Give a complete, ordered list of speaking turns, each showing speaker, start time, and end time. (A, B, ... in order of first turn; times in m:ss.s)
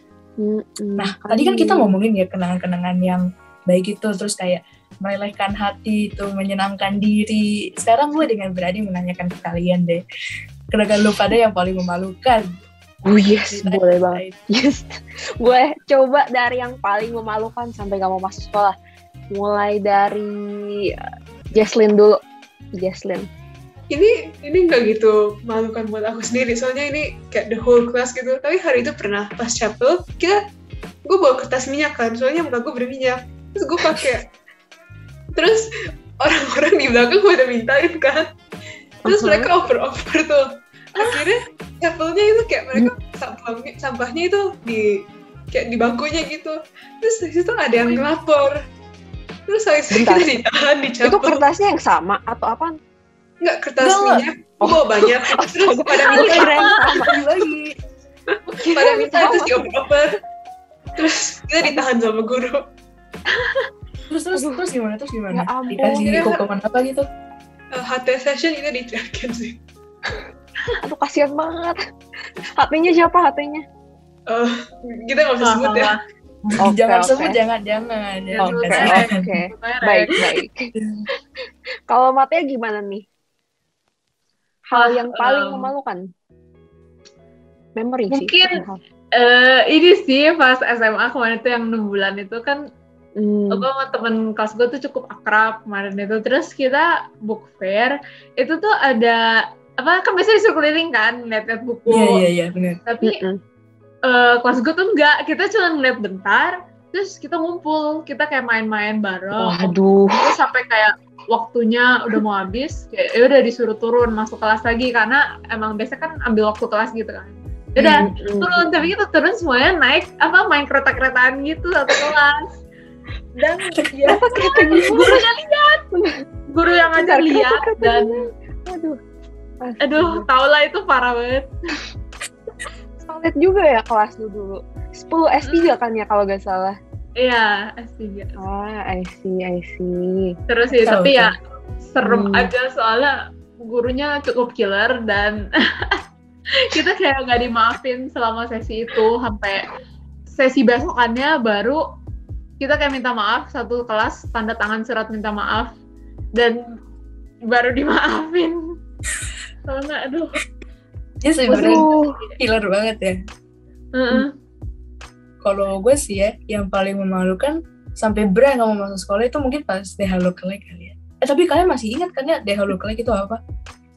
0:00.4-0:01.9 A
0:01.0-0:10.0 B
0:10.7-0:12.5 B
0:13.0-0:18.7 A
0:13.5-0:14.4 B
0:19.3-0:20.9 A
0:21.5-0:22.2 A
0:22.8-0:23.3 A
0:23.9-0:30.4 C
0:31.0-0:34.3 C
0:35.4-0:35.7 C
0:36.2-0:38.3 C
0:39.0-0:39.5 A
0:39.1-0:48.6 C
0:49.5-0:51.4 C
0:49.9-0:50.4 A
0:51.0-0:52.8 A
0:53.4-0:56.7 C
0:53.8-0:54.2 B
0:54.6-0:57.1 A
0:56.1-0:56.9 D
0:57.0-0:57.7 B
0:58.5-0:59.6 A
0:58.7-1:00.2 C
1:01.0-1:02.6 C
1:04.1-1:07.0 B
1:04.4-1:04.6 A
1:05.3-1:06.3 A
1:06.1-1:06.4 C
1:07.7-1:09.6 C
1:10.8-1:11.8 A
1:12.6-1:13.6 A
1:14.3-1:15.9 C
1:15.4-1:16.0 D
1:16.4-1:19.3 B
1:16.6-1:17.4 A
1:18.3-1:20.2 D
1:18.4-1:20.7 A
1:20.8-1:21.0 B
1:21.9-1:23.0 A
1:24.7-1:26.0 A
1:24.7-1:25.7 D
1:27.8-1:28.8 A
1:28.1-1:28.6 D
1:29.2-1:32.6 D
1:33.2-1:33.7 A
1:33.5-1:39.2 D
1:39.8-1:42.2 D
1:41.9-1:42.8 B
1:42.8-1:43.2 D
1:43.0-1:43.4 A
1:44.1-2:02.5 D
1:49.4-1:50.3 A
1:58.0-1:58.7 A
2:03.4-2:05.8 D
2:03.7-2:04.2 B
2:04.1-2:05.3 A
2:06.5-2:08.2 D
2:06.9-2:09.0 A
2:09.6-2:10.2 A
2:09.8-2:11.5 D
2:13.0-2:16.7 A
2:15.4-2:15.8 D
2:17.2-2:18.4 D
2:18.4-2:20.3 A
2:20.5-2:26.0 D
2:20.8-2:21.3 B
2:22.0-2:22.5 A
2:26.7-2:29.7 D
2:30.3-2:31.8 D
2:32.6-2:35.7 D
2:36.4-2:36.6 D
2:37.5-2:38.6 D
2:39.6-2:40.4 D
2:41.2-2:41.9 B
2:41.5-2:42.3 D
2:41.6-2:42.2 A
2:42.4-2:43.2 B
2:43.9-2:44.3 D
2:45.4-2:53.4 B